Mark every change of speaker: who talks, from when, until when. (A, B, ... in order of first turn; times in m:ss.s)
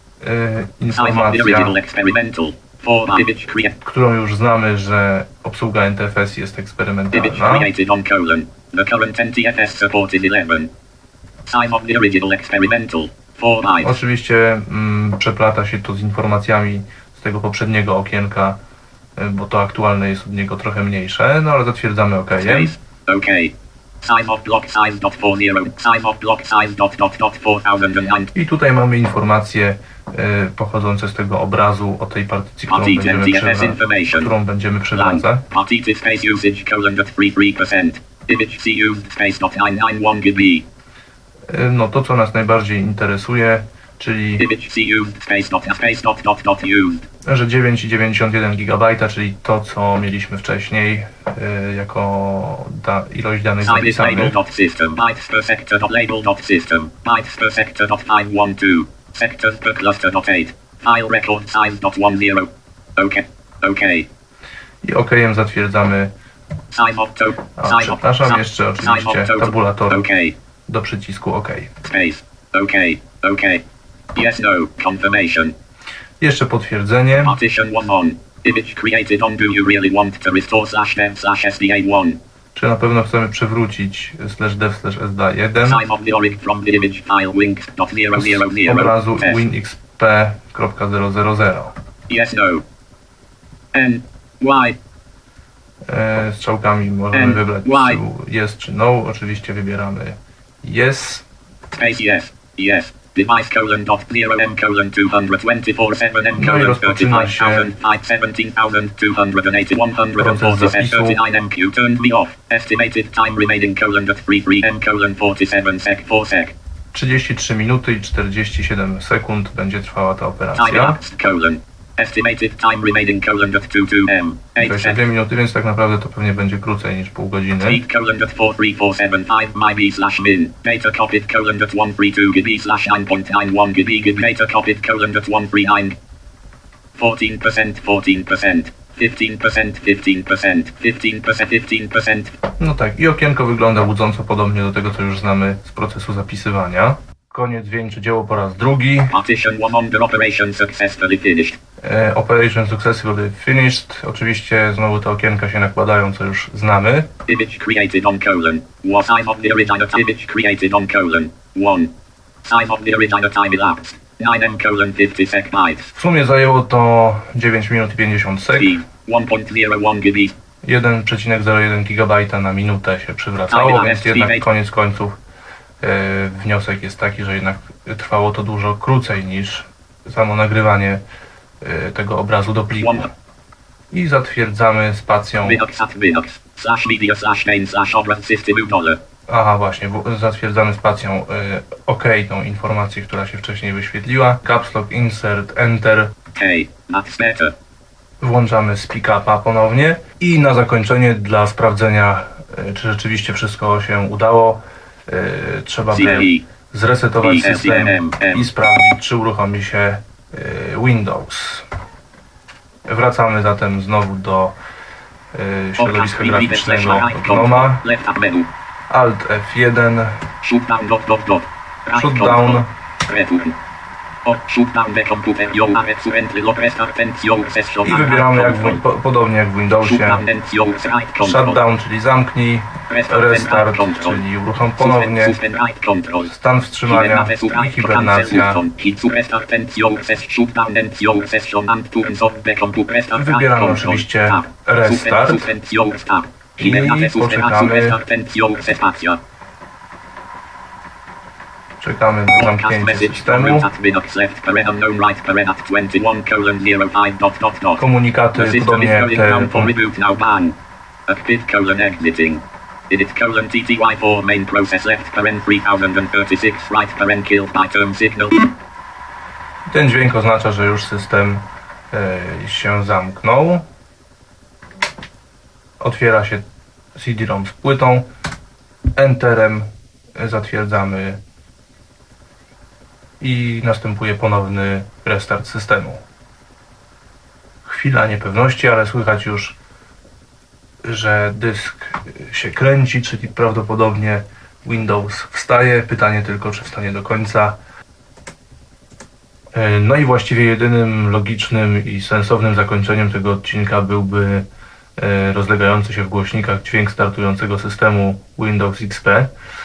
0:00.2-0:01.8 A
0:00.9-0:03.8 B
0:03.8-0:07.7 A
0:07.1-0:10.7 B
0:11.4-0:14.0 B
0:13.8-0:18.6 A
0:19.2-0:22.7 A
0:22.4-0:28.3 B
0:28.3-0:35.4 A
0:32.7-0:34.3 B
0:34.9-0:40.6 B
0:41.5-0:44.4 A
0:44.4-0:47.0 B
0:47.2-0:54.4 A
0:53.6-1:04.1 B
1:04.8-1:06.1 A
1:06.7-1:10.4 B
1:07.6-1:10.0 A
1:10.7-1:11.7 A
1:11.8-1:15.5 B
1:16.2-1:17.4 A
1:17.1-1:22.2 B
1:22.5-1:25.8 A
1:25.6-1:29.4 B
1:28.1-1:31.7 A
1:32.1-1:32.6 B
1:33.7-1:34.8 B
1:35.8-1:41.2 A
1:37.1-1:38.0 B
1:41.7-1:56.5 B
1:46.3-1:47.7 A
1:50.2-1:51.2 A
1:56.9-2:01.0 A
2:00.5-2:05.0 B
2:04.6-2:07.8 A
2:07.6-2:16.0 B
2:16.9-2:22.4 B
2:22.6-2:29.1 A
2:29.1-2:31.6 B
2:31.8-2:37.1 A
2:37.2-2:41.9 B
2:42.4-2:45.9 B
2:46.0-2:48.8 A
2:48.6-2:50.3 B
2:50.6-2:55.2 A
2:53.5-2:54.4 B
2:55.8-3:01.0 A
3:01.6-3:03.1 A
3:02.8-3:03.1 B
3:03.9-3:05.6 A
3:05.4-3:09.0 B
3:09.3-3:16.1 A
3:16.3-3:17.5 B
3:18.2-3:31.7 A
3:25.9-3:26.4 B
3:27.2-3:28.5 B
3:32.8-3:34.6 A
3:35.3-3:37.8 A
3:35.8-3:38.5 B
3:38.9-3:40.2 A
3:40.4-3:43.6 B
3:41.9-3:42.7 A
3:44.2-3:48.8 B
3:47.8-3:50.2 A
3:49.8-3:51.6 B
3:51.2-3:55.4 A
3:52.9-3:54.2 B
3:54.8-3:56.3 B
3:56.3-3:58.6 A
3:56.9-4:09.2 B
4:03.1-4:05.5 A
4:06.6-4:08.0 A
4:11.8-4:13.7 A
4:12.3-4:17.8 B
4:17.8-4:19.7 A
4:18.3-4:20.5 B
4:21.1-4:28.4 B
4:29.7-4:33.6 A
4:35.8-4:38.1 A
4:38.9-4:41.2 A
4:43.2-4:46.0 A
4:47.6-4:49.6 A
4:50.8-4:57.6 A
4:59.5-5:09.3 A